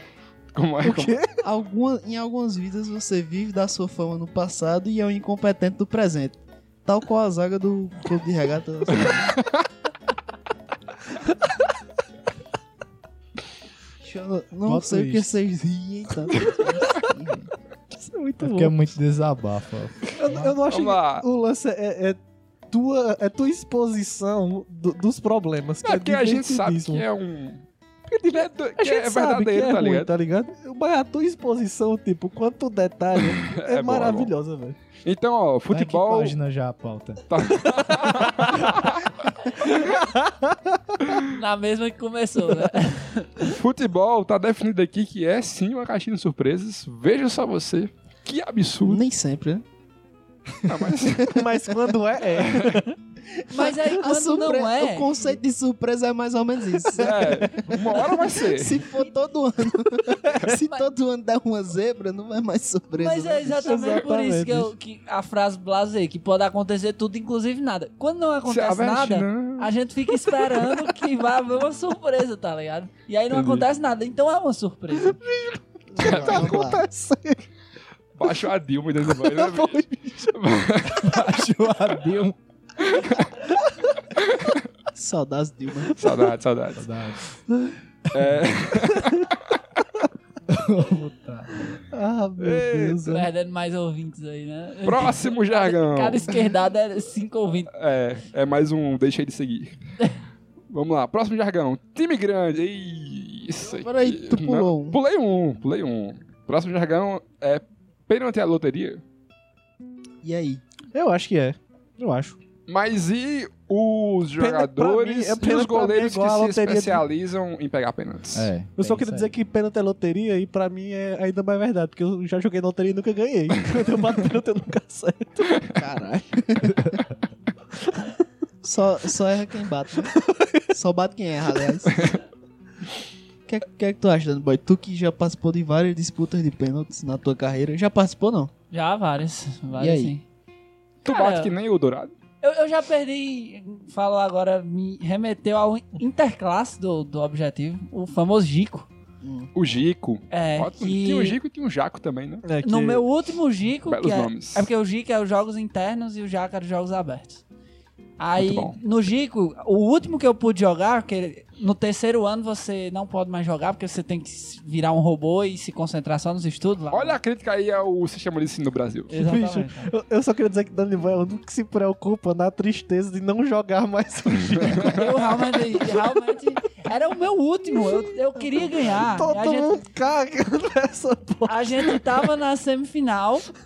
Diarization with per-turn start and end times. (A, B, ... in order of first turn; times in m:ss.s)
0:00.5-0:01.2 A
0:00.8-0:01.4 B
0:01.4-0:09.3 C
0:09.1-0:09.6 A
0:14.0-0:17.5 C
0:14.6-0:15.3 D
0:17.9-0:18.8 B
0:18.4-0:20.5 D
0:20.1-0:27.0 B
0:20.7-0:21.3 A
0:25.8-0:30.1 A
0:28.8-0:34.8 B
0:33.2-0:34.3 A
0:35.0-0:36.4 A
0:35.7-0:37.2 D
0:37.3-0:39.1 A
0:37.8-0:38.6 B
0:39.6-0:40.8 B
0:41.3-0:43.5 E
0:43.4-0:49.0 A
0:48.8-0:49.6 C
0:50.6-0:51.4 A
0:51.2-0:51.4 C
0:51.3-0:52.9 B
0:52.3-0:52.8 A
0:53.3-1:03.6 C
0:53.5-0:55.1 E
0:57.0-0:58.8 A
0:57.2-0:57.7 B
1:03.0-1:15.2 E
1:03.6-1:04.7 B
1:08.4-1:09.7 A
1:13.3-1:13.7 A
1:15.0-1:17.4 B
1:15.9-1:16.8 C
1:16.0-1:16.7 A
1:18.2-1:21.4 A
1:19.1-1:20.3 B
1:21.0-1:22.4 D
1:22.8-1:23.3 A
1:24.2-1:24.6 A
1:24.9-1:26.0 C
1:26.0-1:26.9 A
1:26.8-1:27.3 D
1:28.1-1:29.6 A
1:30.5-1:31.5 D
1:31.9-1:33.3 B
1:32.4-1:33.0 A
1:33.0-1:37.7 E
1:34.8-1:36.4 A
1:37.7-1:39.8 A
1:40.7-1:49.0 A
1:43.6-1:45.0 C
1:50.2-1:50.6 C
1:50.9-1:52.4 B
1:52.7-1:58.5 A
1:54.4-1:57.0 B
1:58.3-1:59.3 D
1:58.7-2:05.6 B
2:05.8-2:07.0 C
2:07.8-2:08.1 B
2:08.6-2:10.1 C
2:10.1-2:10.7 B
2:10.7-2:12.2 C
2:13.5-2:18.5 C
2:18.7-2:20.2 E
2:19.8-2:20.1 C
2:21.0-2:22.1 A
2:21.0-2:21.5 E
2:22.4-2:28.9 E
2:29.2-2:29.5 C
2:29.5-2:32.4 A
2:30.3-2:31.4 E
2:32.4-2:33.0 B
2:32.6-2:37.4 E
2:33.8-2:34.7 A
2:38.2-2:47.2 E
2:38.4-2:38.8 A
2:46.9-2:49.1 A
2:49.1-2:49.9 E
2:49.1-2:56.4 B
2:54.5-2:54.9 A
2:54.8-2:59.8 E
2:58.5-2:59.2 C
2:58.9-3:02.2 B
3:01.4-3:03.5 E